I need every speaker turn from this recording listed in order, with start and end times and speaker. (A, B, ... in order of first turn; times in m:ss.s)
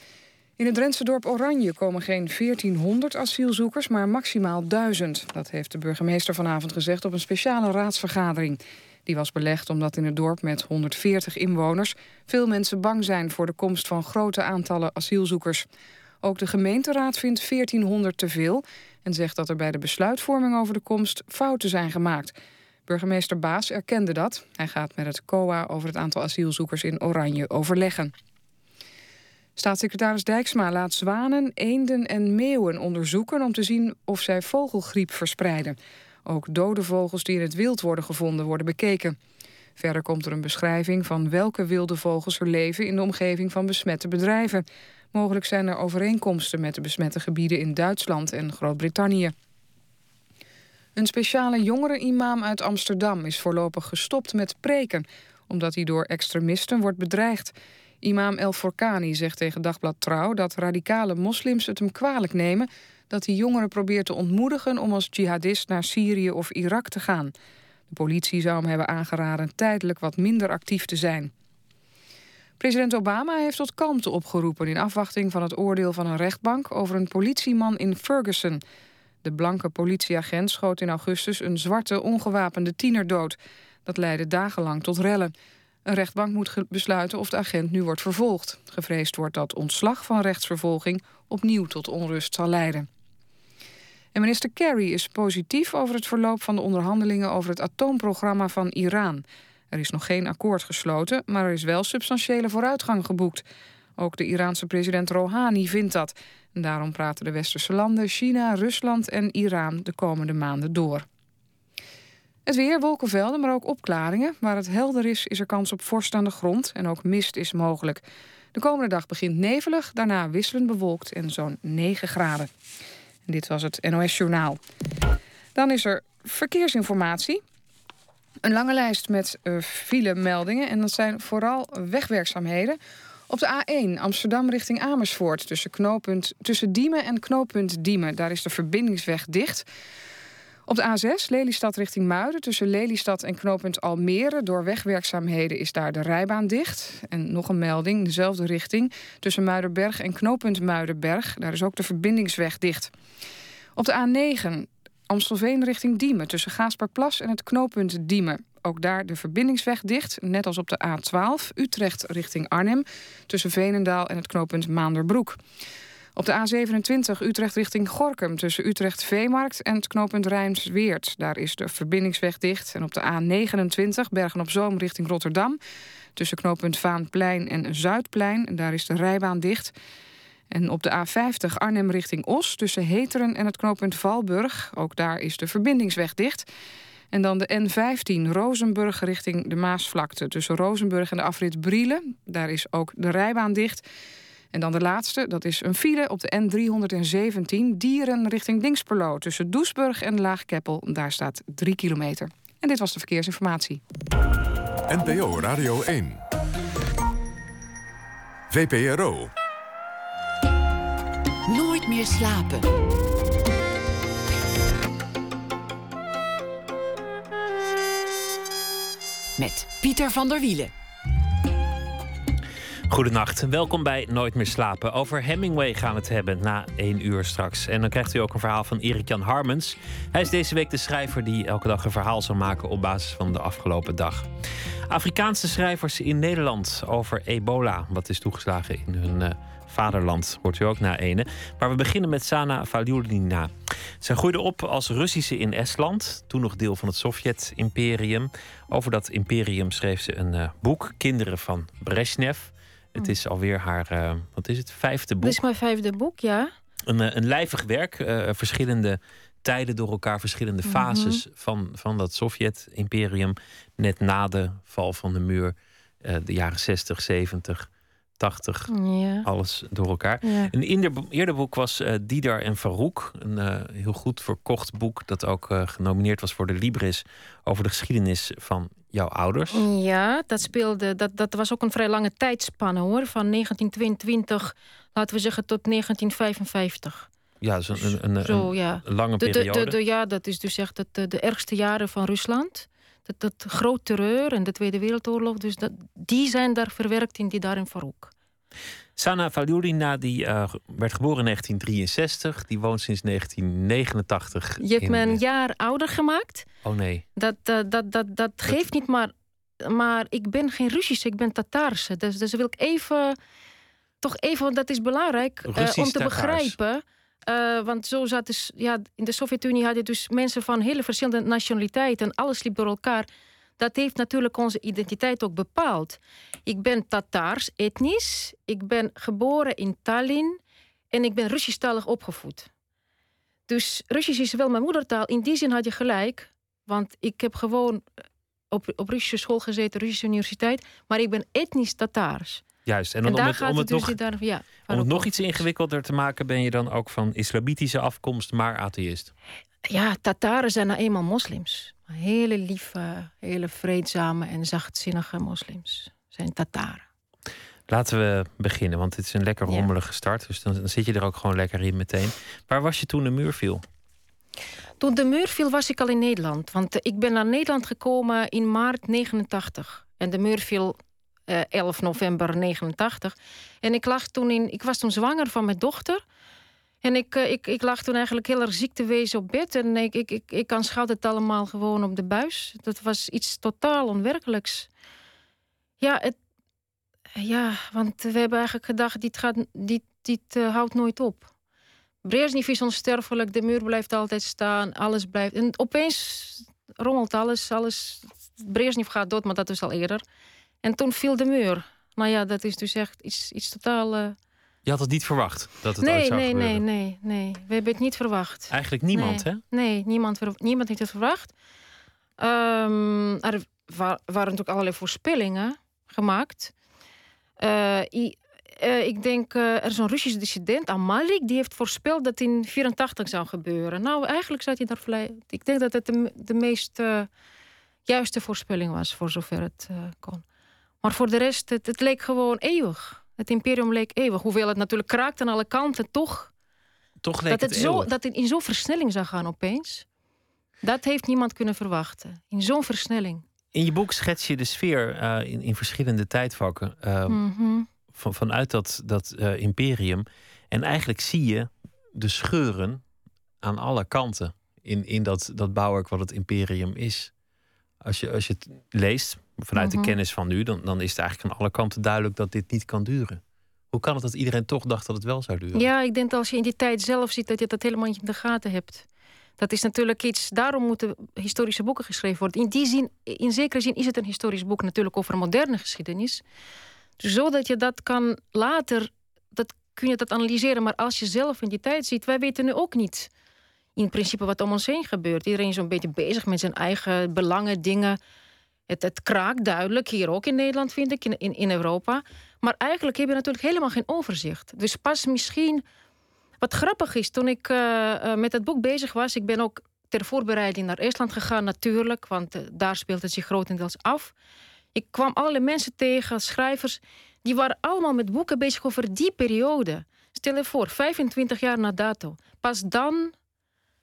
0:00.6-0:15.7 A
0:16.2-0:22.3 A
0:22.9-0:28.1 A
0:29.6-0:39.2 A
0:39.8-0:49.3 A
0:51.0-1:07.3 A
1:07.9-1:11.3 A
1:12.6-1:18.6 A
1:19.2-1:25.3 A
1:25.9-1:32.9 A
1:34.2-1:43.4 A
1:44.0-1:51.1 A
1:52.5-1:58.0 A
1:58.5-2:02.5 A
2:03.3-2:04.6 A
2:05.6-2:07.4 A
2:08.4-2:19.7 A
2:20.7-2:32.9 A
2:33.8-2:45.4 A
2:46.2-2:55.6 A
2:56.2-2:59.7 A
3:00.5-3:06.5 A
3:07.1-3:13.8 A
3:14.5-3:23.8 A
3:24.9-3:26.2 B
3:28.5-3:29.3 B
3:31.5-3:32.8 C
3:39.4-3:40.7 C
3:42.9-3:54.3 D
3:54.9-4:15.4 D
4:15.2-4:16.5 E
4:16.9-4:28.7 D
4:20.7-4:21.2 E
4:28.7-4:29.3 E
4:29.2-4:39.6 D
4:30.2-4:30.5 E
4:39.5-4:47.1 E
4:47.4-4:49.8 D
4:47.7-4:58.1 E
4:59.0-5:05.2 D
5:04.6-5:06.5 E
5:06.6-5:07.1 D
5:07.2-5:13.2 E
5:14.0-5:23.1 E
5:15.5-5:16.6 D
5:23.6-5:30.4 E
5:30.9-5:32.5 E
5:33.5-5:37.8 E
5:38.5-5:42.4 E
5:42.7-5:44.0 D
5:43.1-5:45.4 E
5:44.7-5:49.1 D
5:49.7-5:56.8 E
5:57.7-6:03.6 D
6:04.8-6:16.0 E
6:16.8-6:24.7 E
6:25.8-6:26.2 E
6:27.2-6:31.3 E
6:32.0-6:40.0 E
6:40.6-6:44.2 E
6:44.6-6:46.6 D
6:45.8-6:51.3 E
6:48.5-6:49.4 D
6:52.2-6:56.5 E
6:57.4-7:07.1 E
7:07.9-7:10.2 E
7:10.8-7:16.3 E
7:17.0-7:17.9 D
7:17.3-7:19.8 E
7:20.6-7:23.2 E
7:23.5-7:27.2 D
7:27.1-7:27.7 E
7:27.9-7:32.8 D
7:33.4-7:37.1 D
7:37.8-7:45.7 D
7:39.6-7:40.0 E
7:45.6-7:48.9 E
7:49.4-7:56.2 E
7:57.0-8:03.1 E
8:03.8-8:08.0 E
8:08.7-8:15.6 E
8:16.4-8:24.1 E
8:24.8-8:33.1 E